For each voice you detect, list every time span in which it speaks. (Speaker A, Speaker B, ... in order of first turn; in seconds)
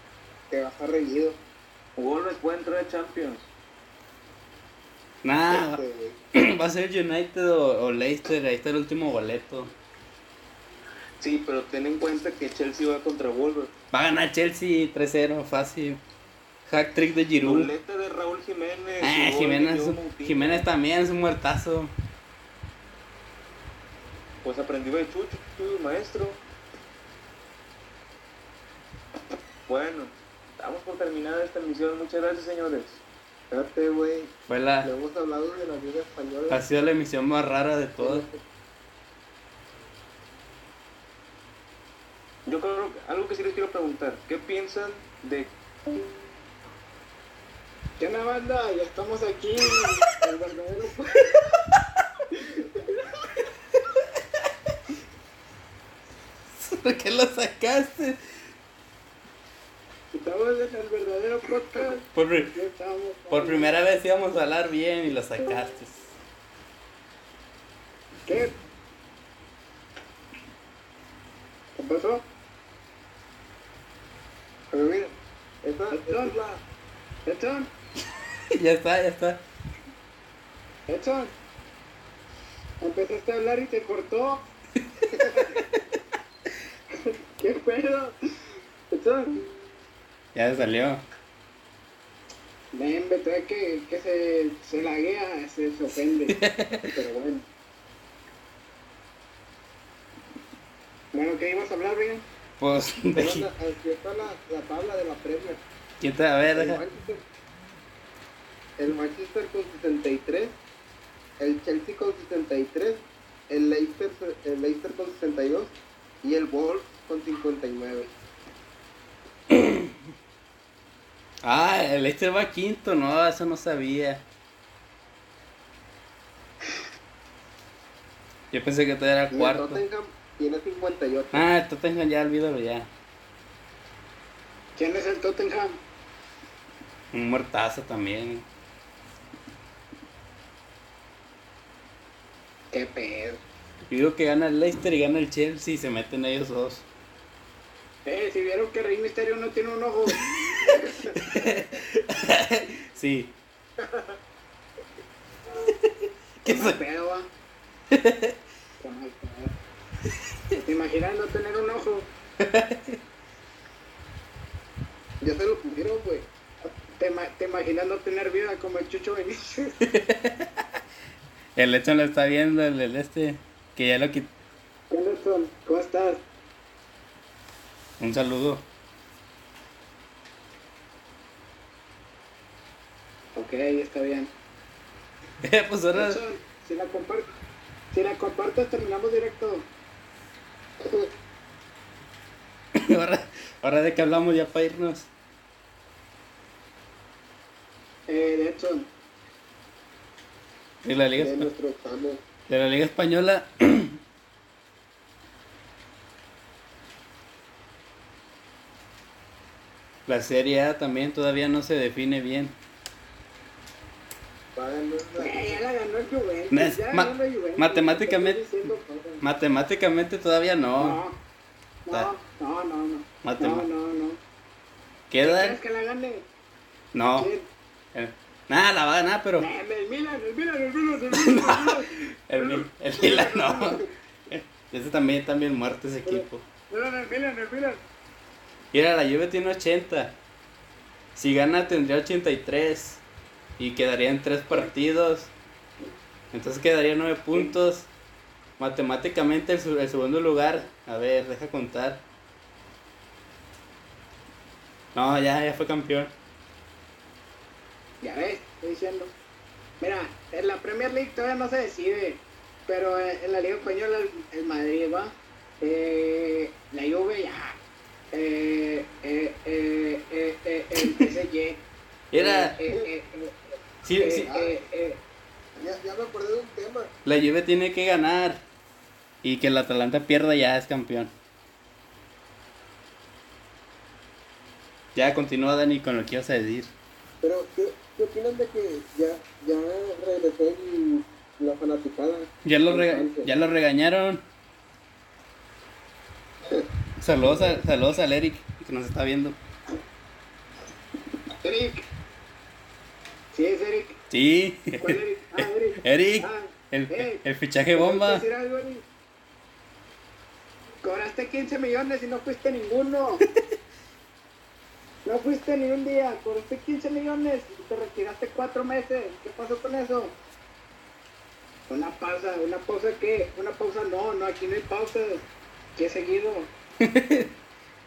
Speaker A: 0.5-1.4, 5.5-6.2, 33.5-36.6, 38.0-38.4, 74.7-76.6, 96.9-97.4, 103.2-105.6, 106.4-107.2, 108.8-110.5, 111.4-118.1, 129.3-131.5, 165.2-166.3, 190.8-191.1, 201.2-202.2, 214.5-215.6, 233.0-233.9, 274.1-274.5, 275.6-276.9, 287.2-293.3
Speaker B: 1.9-3.5, 11.2-13.7, 17.4-20.6, 24.4-26.4, 29.7-33.0, 42.5-45.5
Speaker C: 5.2-5.8, 6.3-9.7, 13.9-16.0, 16.6-17.7, 19.0-21.9, 34.5-34.9, 36.5-38.2, 56.5-58.2, 62.1-62.6, 63.3-66.1, 78.5-79.4, 90.3-91.0, 96.0-96.9, 102.6-103.5, 106.0-106.8, 119.5-119.9, 121.4-124.2, 128.5-129.8, 131.3-132.9, 137.1-138.4, 143.9-146.8, 151.1-153.3, 155.7-156.8, 157.9-158.3, 162.4-163.0, 169.8-170.6, 171.6-174.3, 178.0-178.7, 185.4-186.2, 192.7-195.1, 200.8-201.5, 202.5-204.0, 210.1-212.6, 216.5-221.0, 223.2-223.7, 225.1-225.6, 226.9-227.3, 227.9-229.5, 231.1-236.4, 238.7-240.2, 241.1-243.0, 243.6-245.3, 246.3-247.9, 248.6-252.0, 254.9-256.1, 272.1-272.6, 273.8-274.3, 277.0-278.4, 279.2-281.1, 284.9-286.7, 292.4-294.2, 297.0-299.4, 304.1-308.2, 326.8-327.3
Speaker D: 48.0-51.4, 52.3-53.0, 60.1-63.7, 68.2-68.5, 71.7-72.2, 75.9-76.4, 77.2-77.7, 80.9-81.3, 82.8-84.5, 85.1-85.6, 86.9-88.1, 88.9-89.5, 92.7-96.4, 101.1-102.2, 134.8-135.8, 142.7-143.4, 148.0-151.5, 156.4-157.3, 158.8-159.5, 160.6-162.1, 166.6-169.8, 174.9-176.2, 183.3-184.3, 185.9-187.3, 187.9-189.7, 198.1-198.9, 215.2-219.2, 220.8-221.2, 221.8-224.2, 225.2-226.3, 227.1-227.5, 229.4-233.7, 236.1-237.8, 258.0-259.1, 259.8-267.6, 268.1-273.4, 273.9-275.0, 301.4-301.9, 303.3-304.0, 304.8-307.2, 307.8-308.8, 310.8-313.2, 315.0-320.1, 321.7-326.5